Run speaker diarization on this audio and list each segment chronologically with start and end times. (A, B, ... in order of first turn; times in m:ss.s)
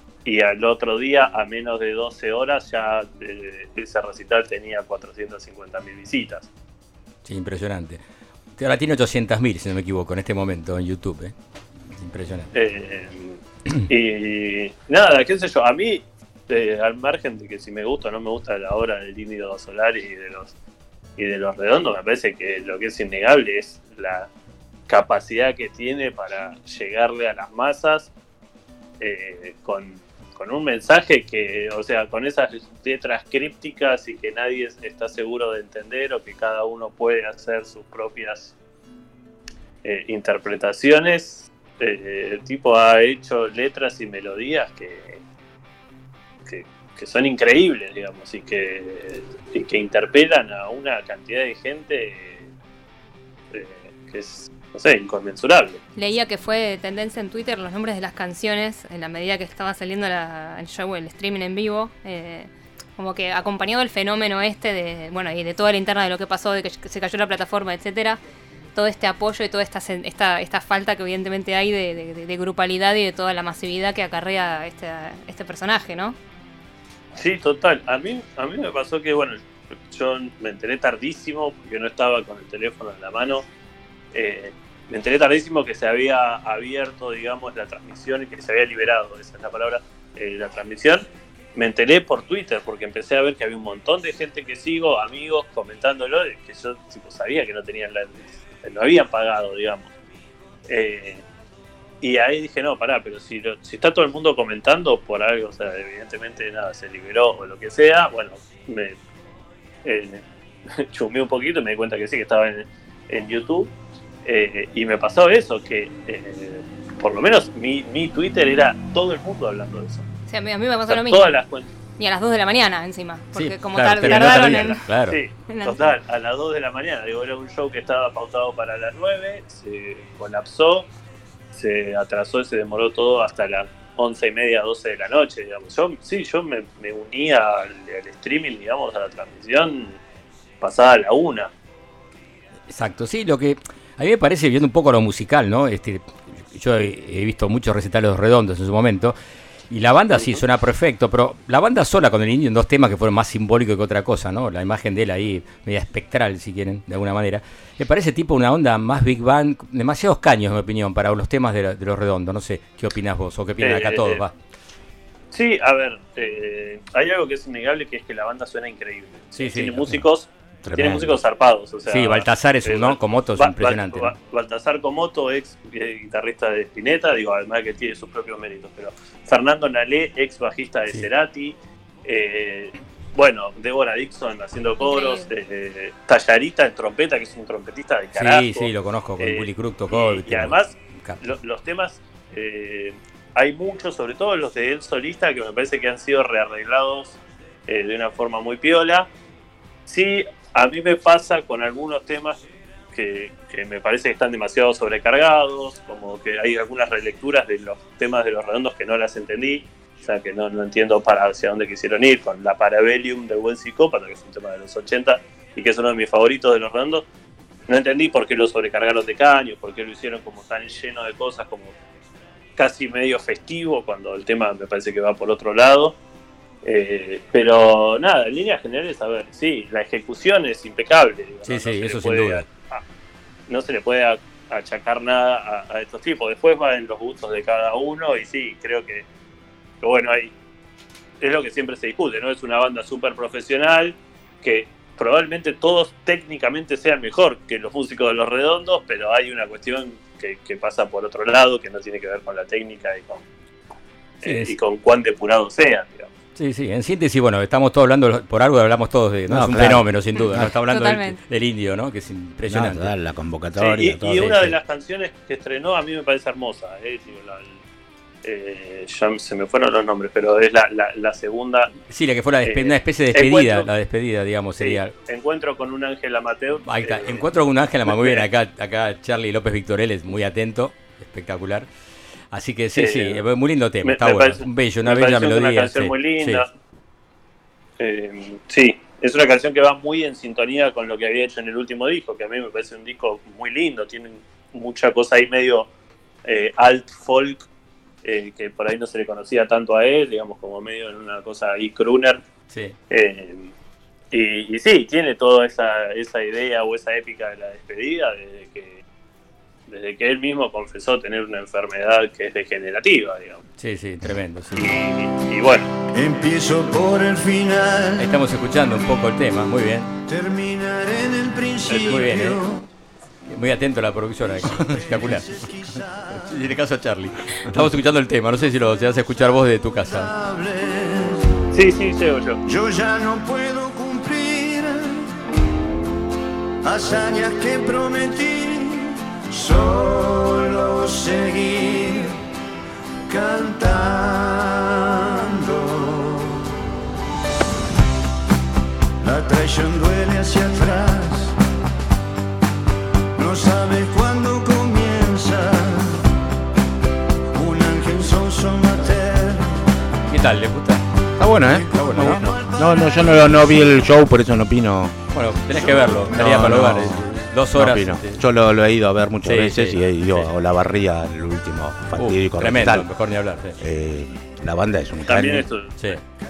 0:00.2-0:06.5 A
0:07.2-0:08.0 B
0:08.6-0:11.3 B
0:11.9-0:12.5 B
0:12.5-0:20.5 A
0:21.2-0:24.3 A
0:24.9-0:28.1 A
0:29.0-0:38.5 A
0:39.8-0:45.2 A
0:46.4-0:52.5 A
0:53.5-0:55.8 A
0:56.0-1:08.2 C
1:08.7-1:16.2 C
1:17.2-1:19.4 A
1:19.9-1:23.4 A
1:24.1-1:39.9 A
1:40.7-1:41.2 A
1:42.0-1:49.0 A
1:49.8-1:53.7 A
1:54.2-2:00.0 A
2:00.3-2:01.4 C
2:00.9-2:01.7 A
2:02.0-2:04.8 C
2:03.3-2:05.2 B
2:04.0-2:10.9 A
2:05.5-2:05.8 C
2:11.5-2:20.0 A
2:20.6-2:21.5 A
2:22.7-2:29.2 B
2:29.7-2:44.3 B
2:43.6-2:44.2 A
2:45.3-3:19.1 A
2:49.4-2:50.0 B
2:50.6-2:51.2 D
2:51.9-2:54.1 B
3:04.8-3:05.3 C
3:08.2-3:11.2 B
3:19.9-3:22.4 A
3:22.9-3:37.0 A
3:37.7-3:41.7 A
3:42.6-3:46.0 A
3:46.6-3:52.8 A
3:51.4-3:52.4 B
3:53.5-3:59.0 A
3:59.8-4:00.3 A
4:01.2-4:13.2 A
4:14.2-4:16.1 A
4:14.2-4:14.5 B
4:16.4-4:22.9 B
4:19.3-4:20.5 D
4:20.7-4:21.2 C
4:22.5-4:24.5 D
4:23.6-4:27.6 A
4:28.2-4:31.7 A
4:31.9-4:34.9 B
4:32.4-4:33.7 A
4:34.6-4:37.2 A
4:36.6-4:41.7 B
4:37.8-4:38.3 A
4:42.3-4:46.4 B
4:42.8-4:43.2 A
4:43.8-4:46.5 A
4:47.8-4:55.7 A
4:56.2-4:57.4 A
4:58.0-5:02.2 A
5:02.5-5:02.8 B
5:02.9-5:03.5 A
5:04.1-5:08.8 A
5:09.7-5:13.4 A
5:13.6-5:14.8 B
5:14.6-5:15.7 A
5:15.9-5:18.2 E
5:18.0-5:19.9 B
5:20.1-5:22.6 E
5:21.7-5:22.0 A
5:21.8-5:22.4 B
5:23.3-5:25.2 B
5:24.3-5:26.5 E
5:26.1-5:30.1 B
5:29.9-5:31.2 E
5:31.5-5:32.4 A
5:32.4-5:35.1 E
5:36.6-5:42.2 E
5:43.1-5:46.3 E
5:49.0-5:51.3 E
5:53.2-5:56.0 E
5:57.3-5:59.6 E
6:00.1-6:00.8 B
6:01.2-6:05.0 D
6:01.4-6:02.2 B
6:01.8-6:03.5 E
6:05.1-6:08.2 B
6:05.5-6:12.9 D
6:09.2-6:10.3 B
6:12.0-6:13.6 B
6:13.6-6:15.5 D
6:15.0-6:15.8 A